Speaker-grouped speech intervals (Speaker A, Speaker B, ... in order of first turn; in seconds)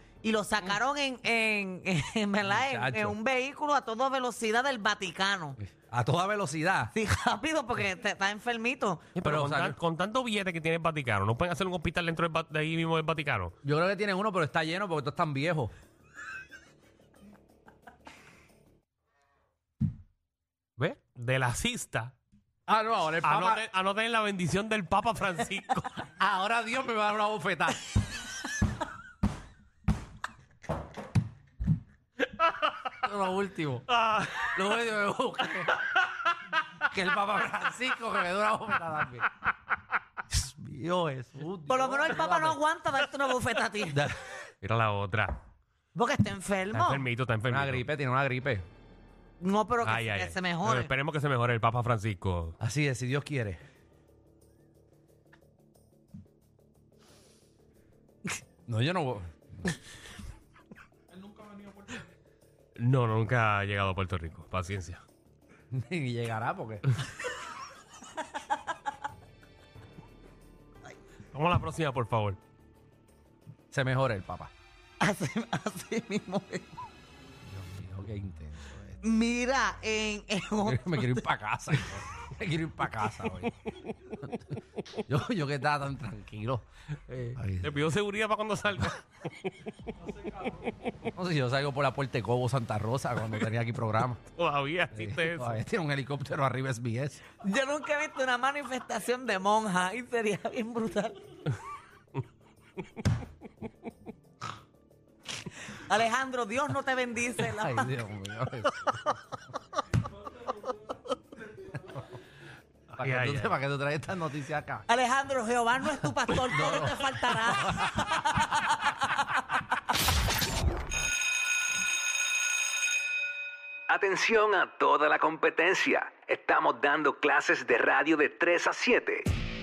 Speaker A: 0.2-5.6, 6.9-9.1, 41.7-44.1, 46.0-47.0, 49.4-50.9, 75.0-76.7, 79.0-81.2, 97.4-101.2, 105.8-107.9, 114.9-118.5
Speaker B: 2.5-3.1, 5.6-6.9, 9.2-9.8, 13.6-15.7, 22.7-23.6, 26.1-27.8, 33.0-33.8, 34.5-35.7, 36.9-39.3, 40.3-42.6, 43.9-44.2, 47.5-48.7, 52.6-53.6, 58.7-59.8, 65.7-66.8, 73.7-74.5, 77.5-79.0, 80.7-83.5, 84.2-86.7, 87.3-87.8, 91.2-94.2, 94.9-97.2, 107.4-109.2, 112.9-114.9, 116.3-118.1
Speaker C: 9.2-13.5, 21.1-22.1, 23.2-26.0, 32.5-32.7, 33.9-34.6, 44.6-45.4, 46.7-47.9, 49.8-52.5, 62.8-65.0, 71.3-72.4, 87.1-89.6, 90.4-91.0, 94.3-95.6, 113.0-113.6
Speaker D: 123.9-129.3